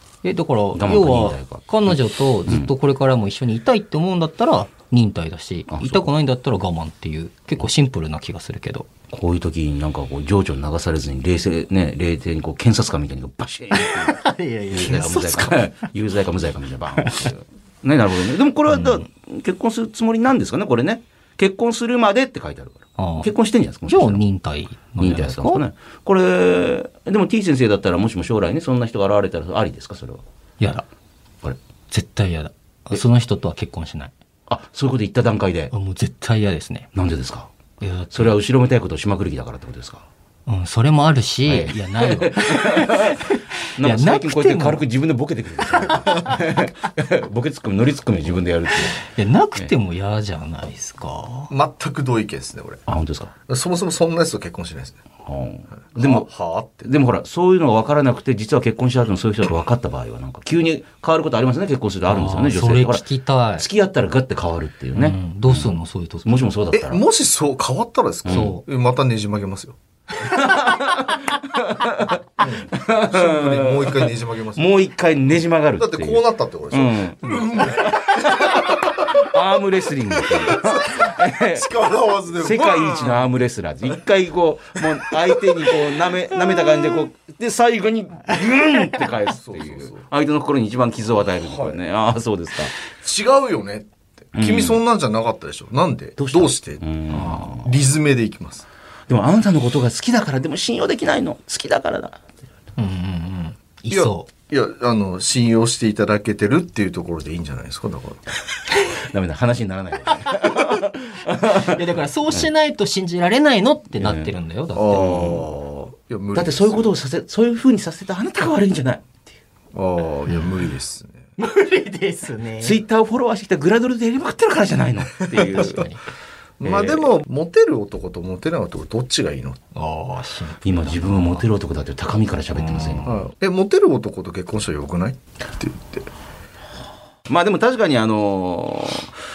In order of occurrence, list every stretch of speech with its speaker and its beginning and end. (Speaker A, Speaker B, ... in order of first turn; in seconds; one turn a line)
Speaker A: 0.2-8.9
Speaker B: 0.7-2.0
Speaker B: 5.7-6.1
Speaker B: 9.1-24.2
Speaker A: 13.7-15.9
Speaker A: 17.0-17.3
Speaker A: 18.7-19.1
Speaker A: 23.0-23.3
Speaker A: 23.9-25.6
Speaker B: 25.0-30.2
Speaker A: 30.6-30.9
Speaker A: 31.9-34.1
Speaker B: 34.5-35.7
Speaker A: 35.7-36.9
Speaker B: 37.0-37.5
Speaker A: 37.8-38.4
Speaker B: 38.1-40.1
Speaker A: 40.5-44.8
Speaker B: 41.5-49.0
Speaker A: 45.7-46.4
Speaker A: 49.0-51.5
Speaker C: 51.5-52.8
Speaker B: 52.9-53.3
Speaker C: 53.5-55.0
Speaker B: 55.2-56.3
Speaker C: 56.0-56.9
Speaker B: 56.8-63.0
Speaker A: 62.1-63.6
Speaker B: 63.6-65.7
Speaker A: 65.0-66.3
Speaker B: 66.2-67.0
Speaker C: 66.7-69.8
Speaker B: 68.3-68.6
Speaker A: 68.3-68.6
Speaker B: 70.2-81.7
Speaker C: 72.4-74.7
Speaker C: 75.8-79.3
Speaker C: 80.1-83.3
Speaker B: 82.4-92.7
Speaker C: 85.3-85.8
Speaker C: 89.3-90.0
Speaker C: 91.4-91.8
Speaker C: 93.0-98.7
Speaker B: 94.3-94.8
Speaker B: 96.2-97.8
Speaker A: 97.1-97.4
Speaker B: 99.1-102.3
Speaker A: 102.8-104.3
Speaker C: 103.9-108.4
Speaker B: 108.9-112.5
Speaker A: 110.1-110.9
Speaker A: 111.4-115.3
Speaker B: 114.0-114.3
Speaker C: 114.7-117.0
Speaker B: 114.9-115.5
Speaker B: 116.3-119.3
Speaker C: 119.7-121.3
Speaker A: 121.4-122.8
Speaker B: 122.6-125.9
Speaker A: 125.4-126.0
Speaker C: 126.6-129.7
Speaker B: 126.6-127.1
Speaker A: 129.8-131.5
Speaker B: 130.7-133.1
Speaker A: 132.5-133.2
Speaker C: 133.1-136.1
Speaker B: 137.3-139.2